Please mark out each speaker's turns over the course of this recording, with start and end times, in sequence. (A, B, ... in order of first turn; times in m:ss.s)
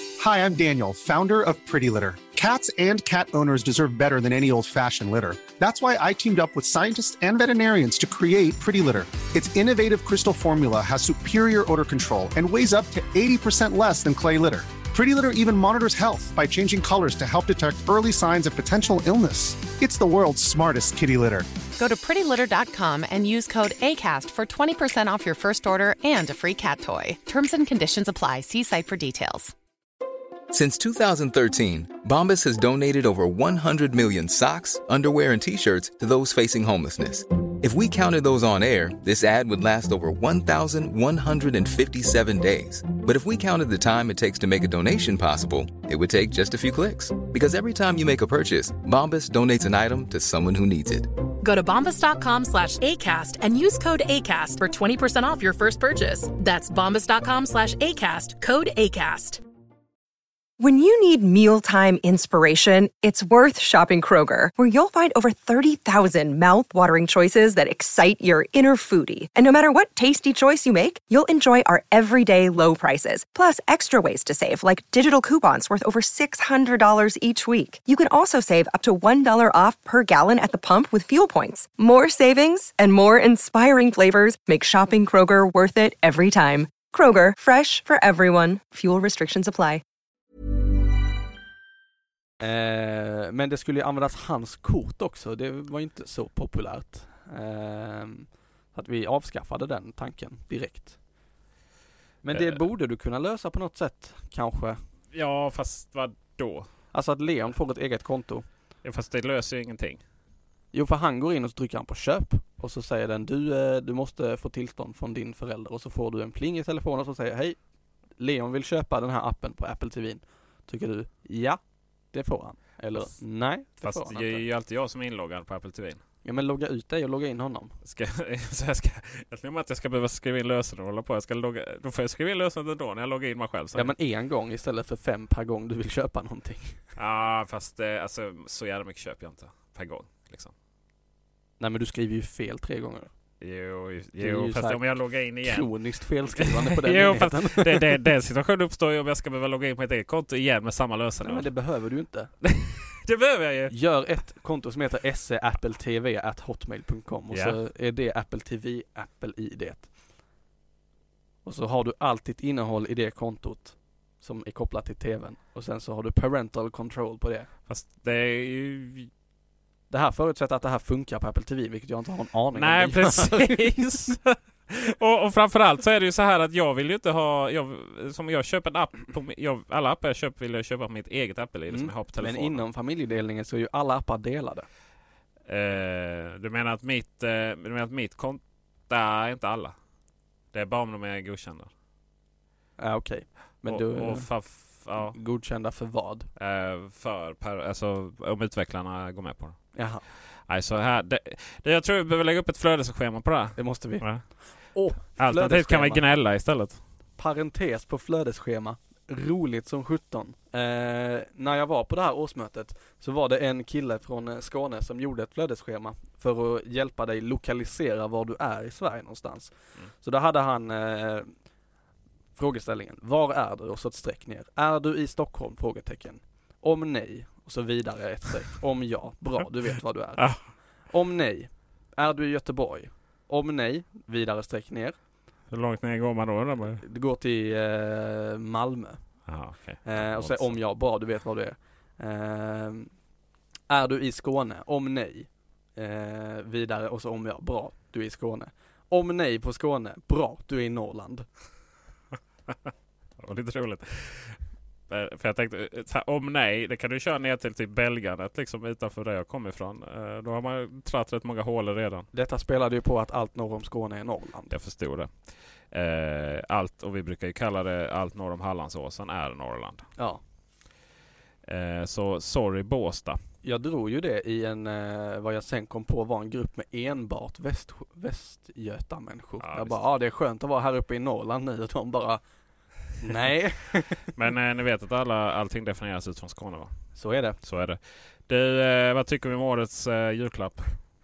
0:00.2-0:21.5 A
0:21.8-0:29.5 B
0:30.5-0:51.1 C
0:51.4-0:59.4 D
1:00.6-1:29.8 E
1:32.4-1:41.0 F
1:42.2-1:44.8 F
1:42.3-1:42.6 G
1:45.1-1:46.7 G
1:46.9-1:48.5 F
1:48.8-1:50.0 G
1:50.7-1:57.6 F
1:58.2-2:01.6 F
2:02.1-2:04.5 F
2:03.8-2:06.0 G
2:06.2-2:07.7 F
2:07.8-2:13.9 G
2:13.8-2:16.8 F
2:17.0-2:20.5 G
2:21.6-2:23.1 F
2:23.4-2:25.7 G
2:24.2-2:24.8 F
2:25.4-2:28.0 F
2:26.4-2:31.5 G
2:31.2-2:32.3 F
2:32.4-2:33.7 G
2:33.7-2:39.9 F
2:37.3-2:37.6 G
2:41.4-2:47.5 F
2:47.7-2:49.1 G
2:49.9-2:53.8 F
2:52.5-3:02.6 G
3:01.7-3:04.7 F
3:05.5-3:09.8 G
3:10.5-3:11.7 G
3:12.8-3:14.3 F
3:13.6-3:15.2 G
3:15.0-3:16.3 F
3:16.4-3:19.6 G
3:19.7-3:20.0 F
3:20.5-3:24.2 G
3:23.6-3:26.0 F
3:25.0-3:26.8 G
3:27.2-3:41.3 F
3:42.4-3:50.3 F
3:50.2-3:50.4 G
3:50.9-3:55.0 F
3:55.5-3:56.8 G
3:56.8-3:59.0 F
3:59.3-4:00.6 G
3:59.8-4:02.9 F
4:03.7-4:11.3 F
4:13.2-4:14.4 G
4:14.9-4:22.1 G
4:22.1-4:24.6 F
4:24.5-4:25.1 G
4:25.7-4:29.9 G
4:31.4-4:33.2 G
4:33.4-4:42.2 F
4:39.4-4:39.8 G
4:43.0-4:44.1 F
4:44.1-4:46.7 G
4:47.0-4:47.4 F
4:47.4-4:50.7 G